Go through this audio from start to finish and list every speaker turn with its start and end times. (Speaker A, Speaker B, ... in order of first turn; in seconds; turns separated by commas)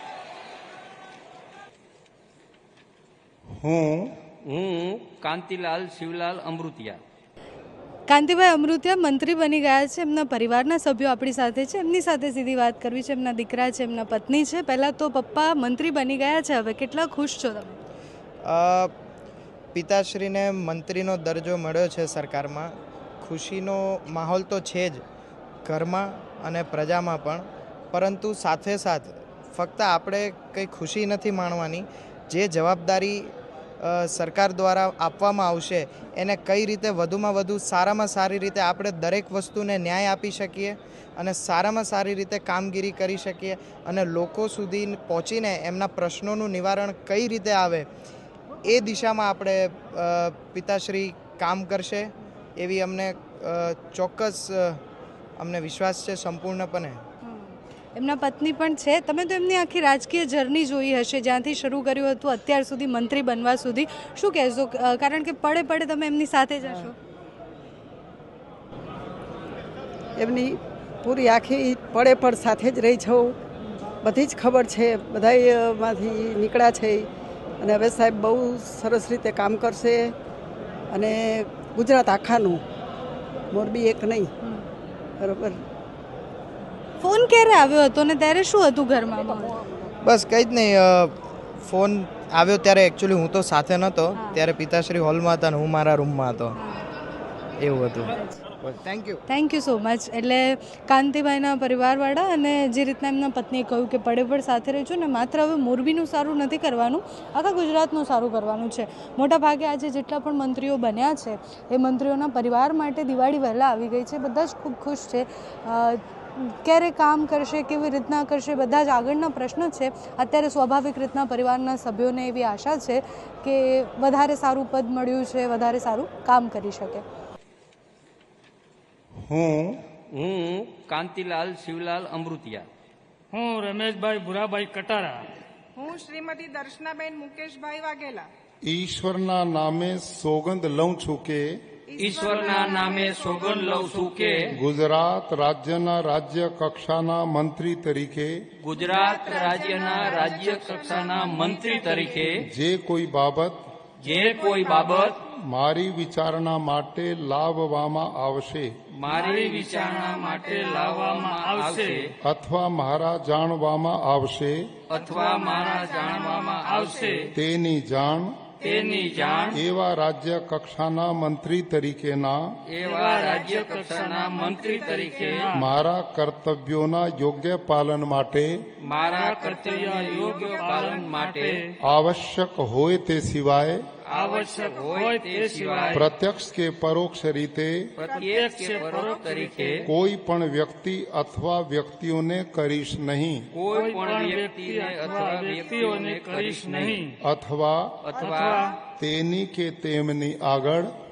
Speaker A: 3.6-4.1, Speaker B: 4.5-7.0, Speaker C: 8.1-17.8, Speaker D: 18.4-18.9, Speaker D: 19.7-25.0, Speaker D: 25.7-47.9, Speaker D: 48.6-54.8, Speaker D: 55.4-57.0, Speaker C: 57.2-67.0, Speaker E: 70.2-73.4, Speaker E: 74.0-77.1, Speaker E: 77.6-80.2, Speaker E: 80.9-82.6, Speaker E: 83.5-84.3, Speaker E: 85.2-85.6, Speaker C: 87.0-89.6, Speaker E: 89.5-89.9, Speaker D: 90.0-96.5, Speaker C: 96.6-96.8, Speaker D: 97.6-99.2, Speaker C: 99.3-127.0, Speaker A: 129.2-129.8, Speaker B: 130.1-132.7, Speaker F: 133.3-135.3, Speaker G: 135.8-138.3, Speaker A: 138.7-141.4, Speaker G: 141.9-143.4, Speaker B: 142.0-144.5, Speaker F: 143.3-144.5, Speaker A: 144.5-148.3, Speaker B: 148.6-152.4, Speaker G: 148.8-152.2, Speaker F: 150.6-150.9, Speaker F: 151.6-151.9, Speaker A: 152.4-153.6, Speaker B: 154.0-155.2, Speaker F: 154.1-155.1, Speaker A: 155.2-158.7, Speaker B: 159.0-162.1, Speaker F: 159.1-162.1, Speaker A: 162.2-164.7, Speaker B: 164.9-167.3, Speaker F: 165.0-167.3, Speaker G: 165.2-166.5, Speaker A: 167.3-168.4, Speaker F: 168.6-169.6, Speaker B: 168.6-169.6, Speaker A: 169.5-172.4, Speaker B: 172.7-175.5, Speaker F: 172.8-174.7, Speaker G: 174.6-175.2, Speaker F: 175.2-175.7, Speaker A: 175.5-178.6, Speaker B: 178.8-181.6, Speaker F: 179.0-181.7, Speaker A: 181.8-183.8, Speaker B: 184.0-186.1, Speaker F: 184.1-186.1, Speaker A: 185.9-187.9, Speaker B: 188.0-189.9, Speaker G: 188.0-189.3, Speaker F: 188.2-189.8, Speaker A: 189.8-193.5, Speaker B: 193.5-197.0, Speaker F: 193.7-197.2, Speaker A: 197.2-198.1, Speaker B: 198.1-198.7, Speaker F: 198.2-198.8, Speaker A: 199.0-200.9